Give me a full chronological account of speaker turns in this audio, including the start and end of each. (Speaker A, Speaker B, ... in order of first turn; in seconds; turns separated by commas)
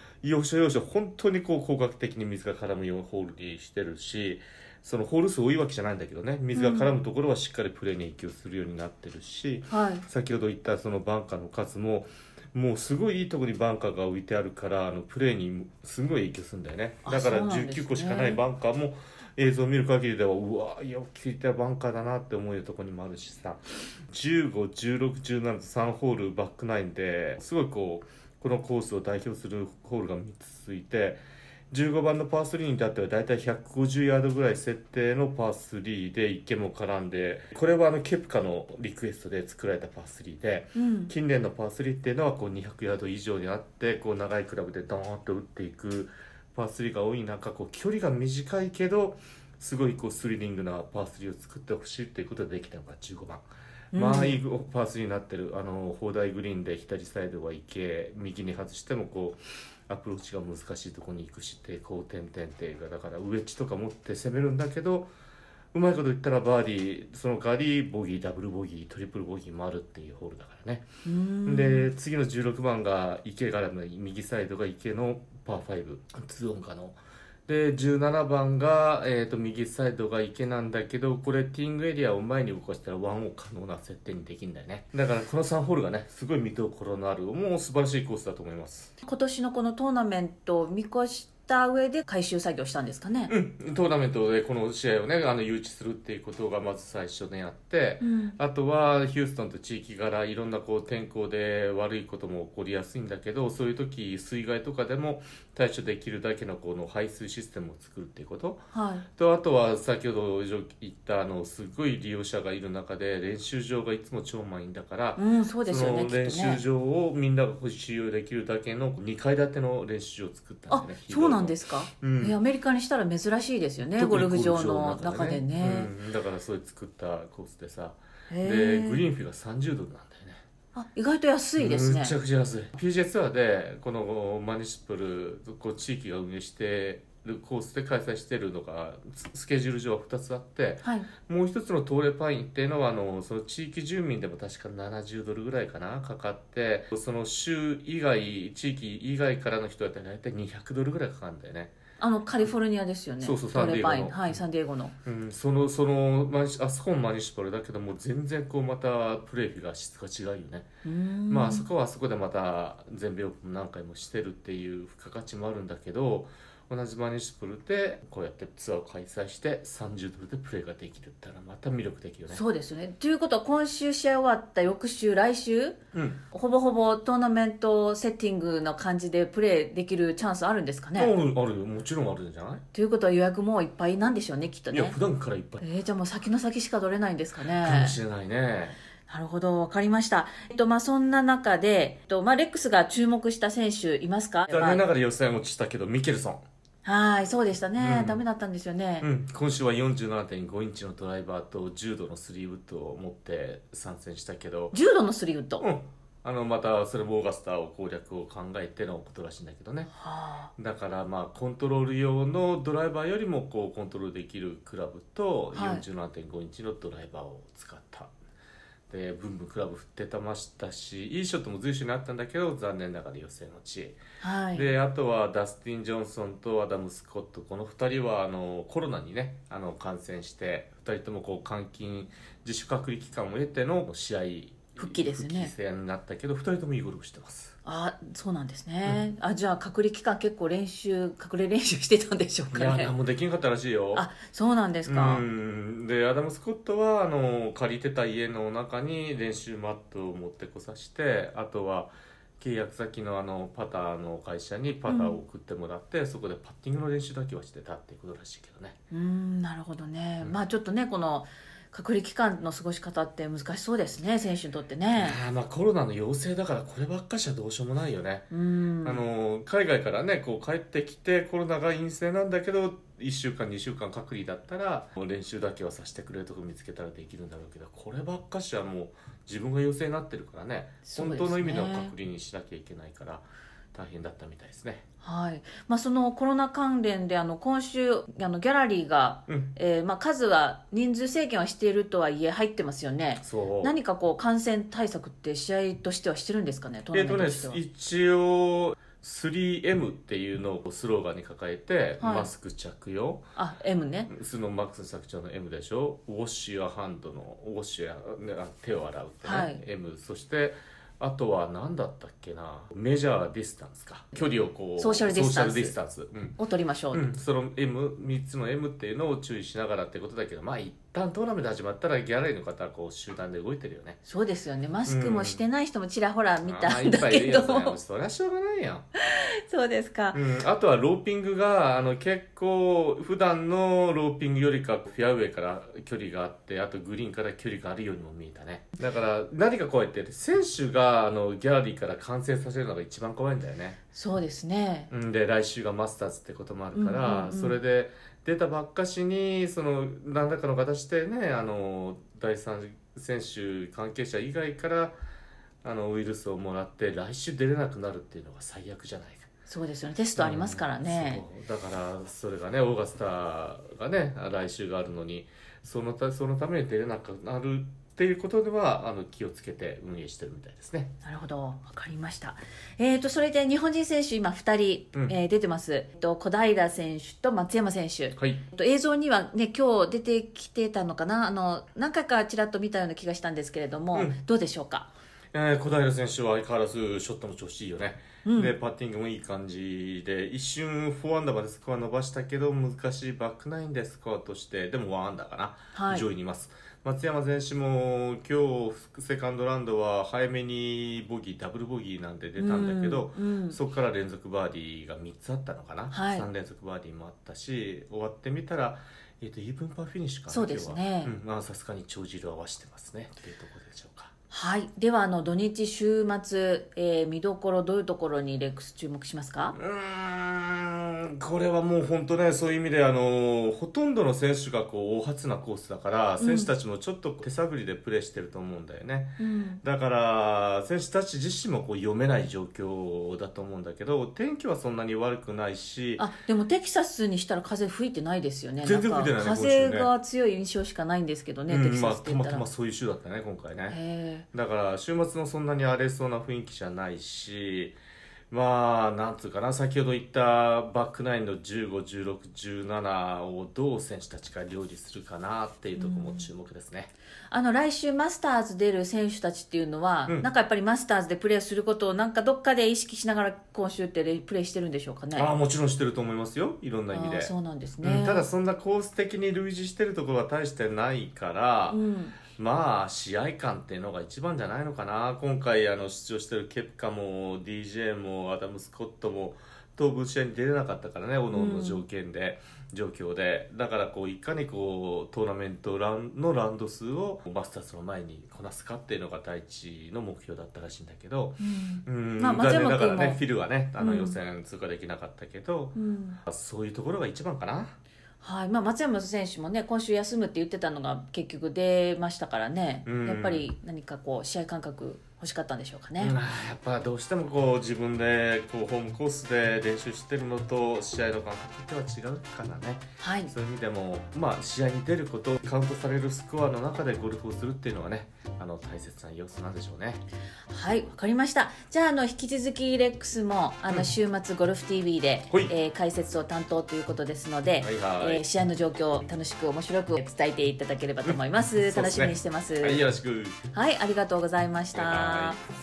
Speaker A: 0.2-23.6, Speaker B: 6.5-6.9, Speaker B: 9.7-10.1, Speaker B: 17.1-18.4, Speaker A: 24.1-65.1, Speaker B: 40.8-41.1, Speaker B: 53.9-54.4, Speaker A: 65.7-70.9, Speaker B: 71.0-71.9, Speaker A: 71.5-88.9, Speaker B: 89.0-93.3, Speaker A: 93.3-122.4, Speaker B: 98.0-98.4, Speaker B: 108.7-109.0, Speaker B: 115.2-116.6, Speaker B: 120.7-125.9, Speaker A: 124.0-130.4, Speaker B: 128.3-129.1, Speaker B: 130.7-132.1, Speaker A: 131.6-151.7, Speaker B: 140.8-141.1, Speaker B: 152.0-154.9, Speaker A: 153.2-154.4, Speaker A: 155.1-160.7, Speaker B: 160.8-161.7, Speaker A: 161.3-172.4, Speaker B: 172.3-175.8, Speaker A: 175.9-176.2, Speaker B: 176.3-181.1, Speaker A: 181.0-182.6, Speaker B: 182.7-185.0, Speaker A: 184.7-185.6, Speaker B: 185.6-188.0, Speaker A: 187.6-188.8, Speaker B: 189.1-194.8, Speaker A: 194.5-196.4, Speaker B: 196.8-199.1, Speaker A: 197.8-198.2, Speaker A: 199.0-204.8, Speaker B: 204.7-205.6, Speaker A: 205.6-209.9, Speaker B: 209.9-210.5, Speaker A: 210.6-218.1, Speaker B: 215.5-215.8, Speaker A: 218.9-224.0, Speaker B: 224.2-224.7, Speaker A: 224.5-237.6, Speaker B: 234.8-235.5, Speaker B: 237.7-242.9, Speaker A: 242.5-244.1, Speaker B: 243.9-245.2, Speaker A: 244.9-258.8, Speaker B: 254.9-255.2, Speaker B: 258.9-265.2, Speaker A: 265.0-268.3, Speaker B: 268.3-269.0, Speaker A: 268.8-284.8, Speaker B: 280.9-281.9, Speaker B: 285.0-297.6, Speaker A: 289.3-289.5, Speaker A: 293.2-293.8, Speaker A: 296.9-303.2, Speaker B: 302.0-302.3, Speaker B: 303.4-304.1, Speaker A: 304.1-316.4, Speaker B: 309.2-309.6, Speaker B: 314.8-315.8, Speaker B: 316.4-317.1, Speaker A: 316.9-324.0, Speaker B: 324.1-327.8, Speaker A: 324.9-325.4, Speaker A: 326.4-328.9, Speaker B: 329.1-330.2, Speaker A: 330.1-343.8, Speaker B: 343.9-344.9, Speaker A: 344.9-355.0, Speaker B: 346.7-347.6, Speaker A: 355.6-359.3, Speaker B: 359.5-361.2, Speaker A: 360.2-370.9, Speaker B: 371.0-384.9, Speaker A: 378.2-378.4, Speaker A: 385.3-414.1, Speaker B: 388.2-388.5, Speaker B: 395.7-396.1, Speaker B: 402.4-403.6, Speaker B: 405.9-406.3, Speaker B: 410.3-411.1, Speaker B: 414.3-419.6, Speaker A: 419.5-436.1, Speaker B: 426.2-426.5, Speaker B: 429.2-429.6, Speaker B: 436.0-442.5, Speaker A: 438.6-439.9, Speaker A: 441.5-443.8, Speaker B: 443.7-444.2, Speaker A: 444.3-447.8, Speaker A: 448.3-456.9, Speaker B: 455.8-456.3, Speaker B: 457.3-465.3, Speaker A: 465.1-471.8, Speaker B: 466.9-468.3, Speaker B: 471.7-472.2, Speaker A: 472.4-497.8, Speaker B: 481.3-481.8, Speaker B: 491.4-493.2, Speaker B: 493.8-494.2, Speaker B: 495.8-496.2, Speaker B: 498.2-506.1, Speaker A: 502.9-503.5, Speaker A: 506.0-520.0, Speaker B: 513.0-513.3, Speaker B: 520.5-532.8, Speaker A: 527.6-528.2, Speaker A: 531.0-533.4, Speaker B: 533.5-535.4, Speaker A: 534.7-535.4